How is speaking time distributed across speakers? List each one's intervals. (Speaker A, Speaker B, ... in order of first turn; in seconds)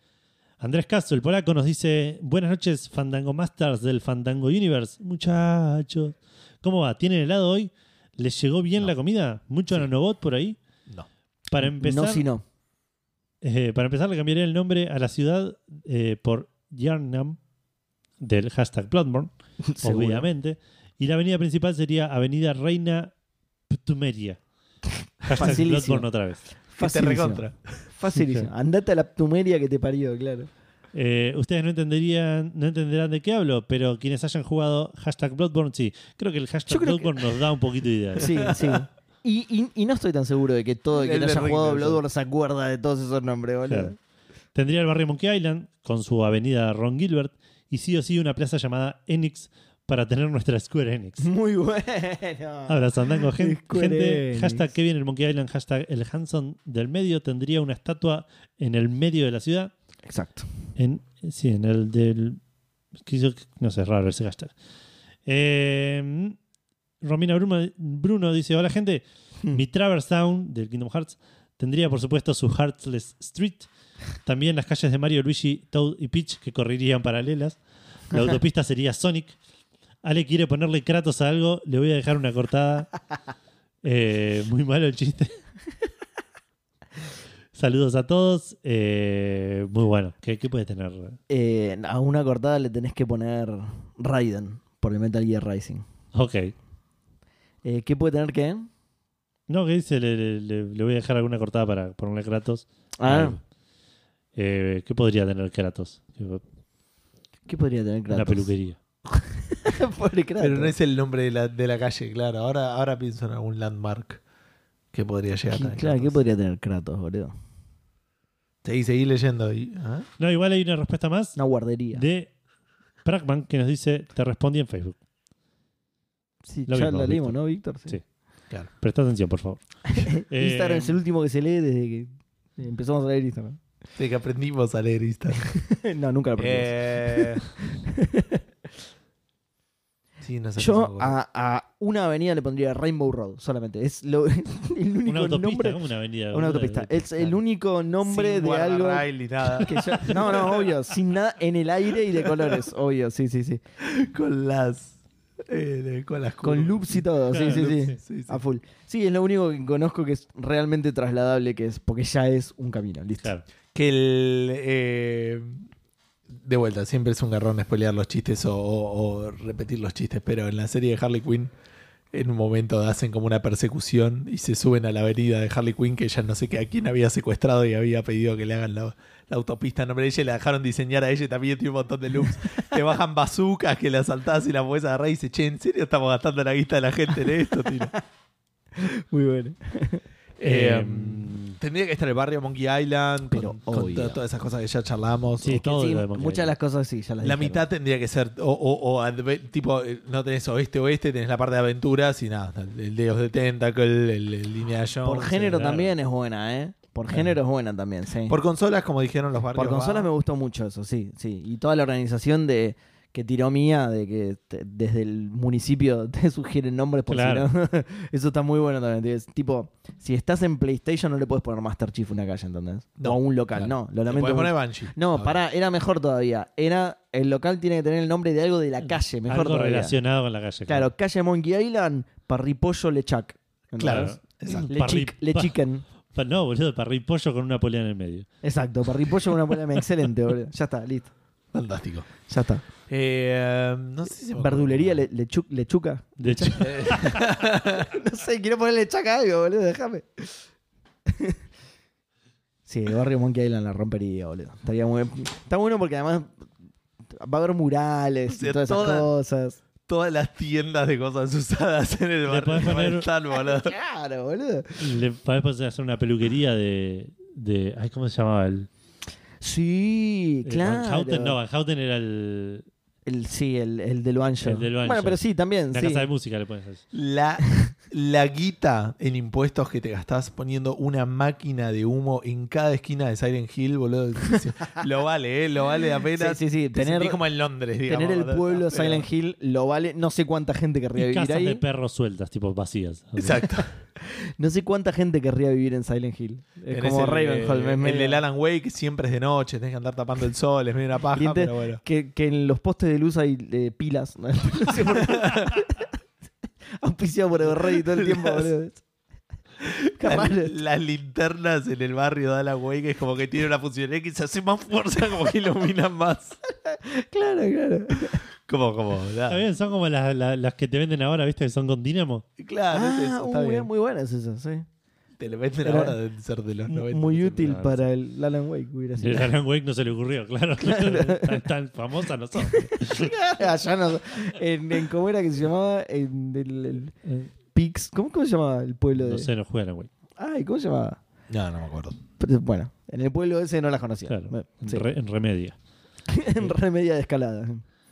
Speaker A: 0.6-10.6, 11.5-12.2, 13.4-17.4, 18.2-19.3, 19.8-23.1, 23.7-24.4, 25.2-26.4, 28.2-28.4, 30.9-38.5, 43.7-43.9, 44.5-51.3, 52.7-59.7, 60.8-62.4, 63.0-64.5, 65.2-66.4, 67.0-73.7, 74.2-77.6, 78.1-79.3, 80.0-82.9, 83.8-85.3, 87.5-91.2, 96.1-96.5, 99.5-103.4, 104.3-106.4, 108.1-108.8, 120.2-121.4, 121.9-122.3, 123.0-125.0, 126.7-127.3, 128.8-131.0, 145.1-147.4, 157.3-157.9, 190.4-191.6, 195.4-196.5, 205.4-205.9, 217.1-217.5, 229.3-230.9, 233.8-235.6, 236.1-238.3, 246.2-247.2, 262.3-263.1, 264.8-268.7, 270.4-272.6, 274.4-276.8, 291.0-293.5, 319.3-322.2, 327.4-327.8, 329.0-333.1, 338.9-339.9, 344.1-345.6
Speaker B: 11.6-12.4, 19.6-20.2, 25.3-26.1, 26.6-30.5, 36.7-37.3, 38.2-43.9, 51.2-54.7, 60.1-60.5, 91.3-95.8, 97.6-98.7, 103.0-103.4, 107.5-108.5, 109.5-110.7, 115.5-117.3, 121.3-122.0, 126.5-128.0, 129.9-133.6, 135.4-138.4, 140.6-145.8, 146.3-153.6, 156.4-163.3, 182.2-182.7, 187.6-188.0, 188.8-190.0, 193.3-194.2, 195.5-197.7, 205.0-208.4, 209.5-229.9, 230.7-235.8, 238.4-241.1, 242.3-242.6, 244.3-250.4, 251.1-251.4, 252.7-256.4, 257.2-259.6, 263.3-264.9, 269.4-271.4, 273.1-276.1, 286.1-287.2, 287.9-291.6, 293.5-298.2, 301.1-305.9, 306.8-308.8, 310.0-310.5, 316.6-318.2, 322.7-324.6, 325.6-326.0, 326.7-329.3, 330.6-331.4, 332.4-336.9, 337.5-339.3, 340.2-341.0, 342.2-344.8, 346.1-347.6
Speaker C: 26.8-27.8, 40.9-42.0, 110.4-114.2, 114.9-116.2, 118.6-120.1, 133.9-135.4, 136.4-137.4, 140.2-141.1, 148.0-150.7, 152.1-152.6, 153.8-158.4, 163.7-165.7, 166.3-171.5, 172.1-187.9, 190.4-195.6, 197.2-205.7, 208.3-210.1, 223.0-225.4, 233.8-234.7, 241.5-242.1, 242.9-245.0, 246.6-247.9, 258.3-259.1, 259.9-263.7, 276.9-289.1, 293.2-293.7, 296.7-301.8, 305.0-305.6, 307.7-308.5, 309.6-316.4, 318.5-319.4, 322.4-323.7, 325.2-327.6, 341.3-342.0